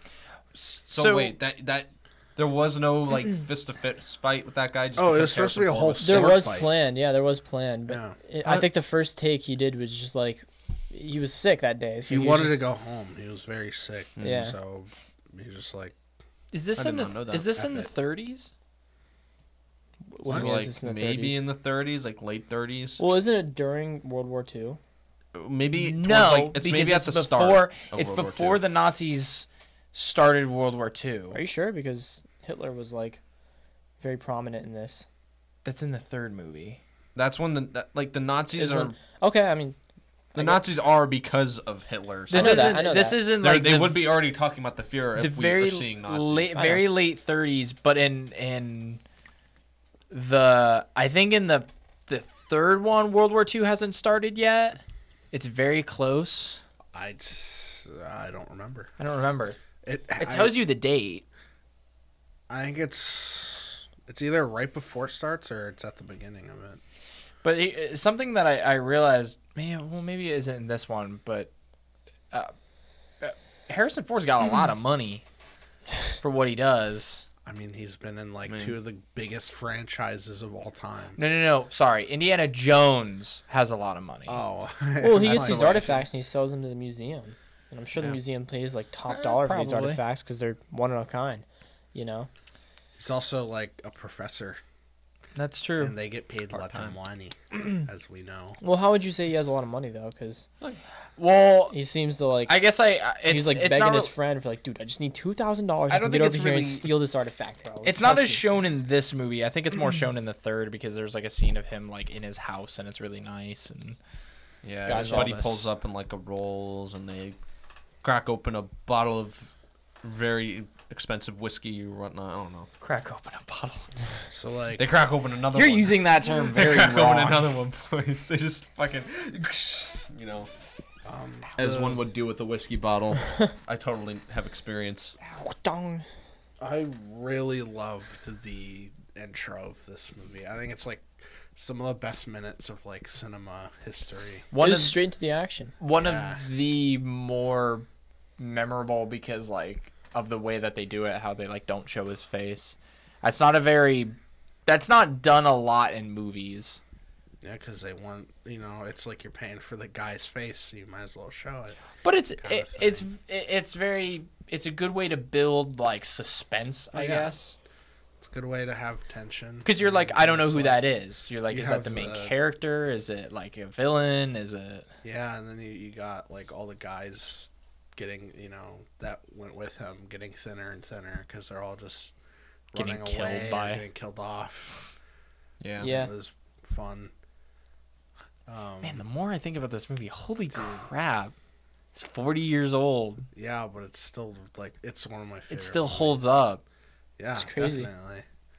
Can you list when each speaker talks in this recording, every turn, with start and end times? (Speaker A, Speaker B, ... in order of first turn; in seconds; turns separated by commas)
Speaker A: 0.6-1.4, Speaker B: 0.9-6.5, Speaker C: 5.0-6.7, Speaker D: 6.0-12.6, Speaker C: 7.9-8.2, Speaker C: 12.1-15.9, Speaker B: 14.2-14.5, Speaker D: 14.2-14.6, Speaker A: 16.5-18.5, Speaker B: 16.8-17.6, Speaker C: 17.6-17.9, Speaker D: 20.1-21.4, Speaker B: 20.3-23.0, Speaker D: 23.0-24.8, Speaker B: 25.3-28.6, Speaker A: 25.8-31.4, Speaker D: 31.3-33.2, Speaker D: 34.0-35.1, Speaker A: 35.6-36.8, Speaker B: 37.1-39.0, Speaker D: 38.6-39.8, Speaker D: 40.3-40.6, Speaker B: 40.4-46.7, Speaker A: 42.3-44.1, Speaker D: 42.3-43.2, Speaker A: 45.2-49.0, Speaker D: 46.6-46.9, Speaker A: 50.1-54.8, Speaker A: 55.3-56.6, Speaker C: 56.9-58.9, Speaker A: 59.0-59.6, Speaker C: 59.8-60.6, Speaker A: 60.2-61.2, Speaker C: 62.5-66.8, Speaker A: 67.4-71.5, Speaker A: 73.2-75.2, Speaker A: 76.2-77.2, Speaker C: 77.5-81.2, Speaker B: 78.5-78.8, Speaker A: 81.2-84.4, Speaker C: 84.3-86.0, Speaker D: 85.0-92.3, Speaker A: 85.2-85.7, Speaker A: 89.1-90.0, Speaker C: 93.0-94.6, Speaker A: 95.3-96.0, Speaker C: 95.8-98.6, Speaker B: 96.5-97.0, Speaker D: 98.6-100.5, Speaker A: 101.2-101.8, Speaker D: 101.7-102.6, Speaker A: 102.5-104.1, Speaker D: 103.3-108.4, Speaker A: 105.9-106.9, Speaker A: 107.8-114.0, Speaker B: 114.6-117.4, Speaker D: 114.8-115.7, Speaker B: 118.0-122.7, Speaker A: 122.8-123.9, Speaker C: 124.3-124.9, Speaker B: 124.8-130.5, Speaker A: 125.5-127.5, Speaker C: 131.1-132.0, Speaker B: 131.6-135.1, Speaker D: 135.3-136.1, Speaker C: 136.6-144.5, Speaker A: 144.5-145.0, Speaker D: 144.6-145.7, Speaker A: 145.8-147.9, Speaker C: 145.9-146.4, Speaker A: 148.4-156.8, Speaker C: 157.4-161.8, Speaker A: 162.0-167.6, Speaker C: 162.4-163.0, Speaker C: 166.9-167.3, Speaker C: 168.2-170.9, Speaker A: 169.6-174.9, Speaker C: 171.5-172.3, Speaker C: 175.0-182.1, Speaker C: 182.7-184.8, Speaker A: 182.8-183.8, Speaker B: 185.6-185.9, Speaker C: 185.8-187.1, Speaker D: 185.8-186.1, Speaker C: 188.5-189.0, Speaker A: 188.8-191.3, Speaker C: 190.6-190.8, Speaker A: 191.9-193.3, Speaker C: 193.3-196.2, Speaker A: 195.5-196.6, Speaker C: 197.2-198.2, Speaker D: 197.3-197.9